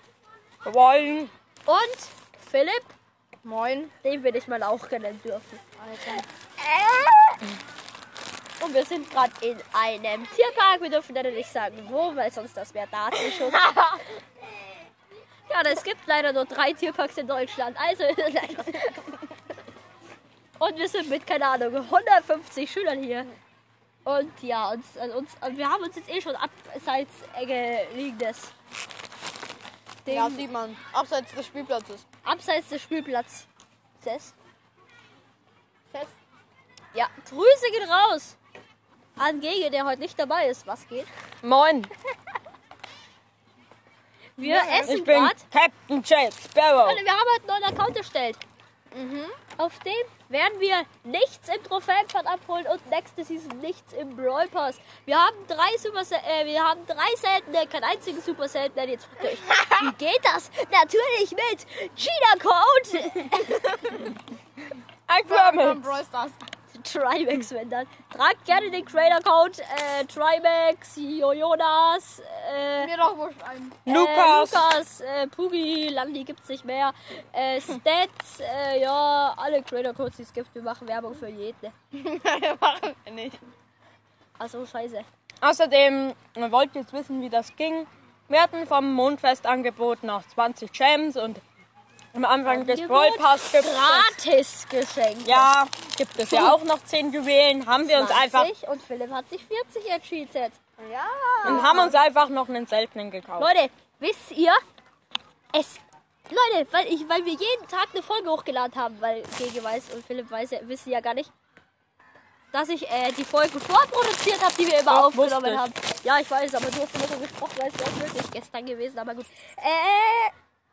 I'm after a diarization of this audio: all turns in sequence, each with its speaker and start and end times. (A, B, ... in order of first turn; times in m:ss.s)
0:00.6-0:01.3 A
0:01.7-0:02.9 B
0:03.4-0:03.9 C
0:04.0-0:05.6 B
0:05.8-0:06.2 C
0:06.6-0:07.4 B
0:08.6-0:14.0 B
0:15.5-0:19.1 B
0:20.6-0:23.3 B
0:24.0-0:28.5 B
0:30.0-0:30.4 B
0:30.1-0:32.0 C
0:32.2-0:33.5 B
0:34.0-0:34.3 B
0:36.9-0:38.4 B
0:39.2-0:41.1 B
0:41.4-0:41.9 A
0:44.4-0:45.4 B
0:44.4-0:47.0 A
0:44.4-0:44.9 C
0:46.8-0:48.4 B
0:48.9-0:49.4 C
0:49.6-1:04.1 B
1:05.1-1:05.9 A
1:05.2-1:06.4 C
1:06.7-1:12.9 B
1:12.8-1:13.8 C
1:13.9-1:14.7 A
1:13.9-1:21.7 B
1:21.9-1:23.4 C
1:24.4-1:25.1 B
1:25.4-1:31.4 A
1:32.1-1:34.2 A
1:32.5-1:35.5 B
1:35.2-1:38.5 A
1:36.3-1:36.6 B
1:37.9-1:40.6 B
1:40.8-1:41.9 C
1:41.4-1:43.5 A
1:41.4-1:41.9 B
1:43.4-1:44.6 B
1:45.5-1:51.3 B
1:52.5-2:00.3 B
1:54.9-1:55.7 A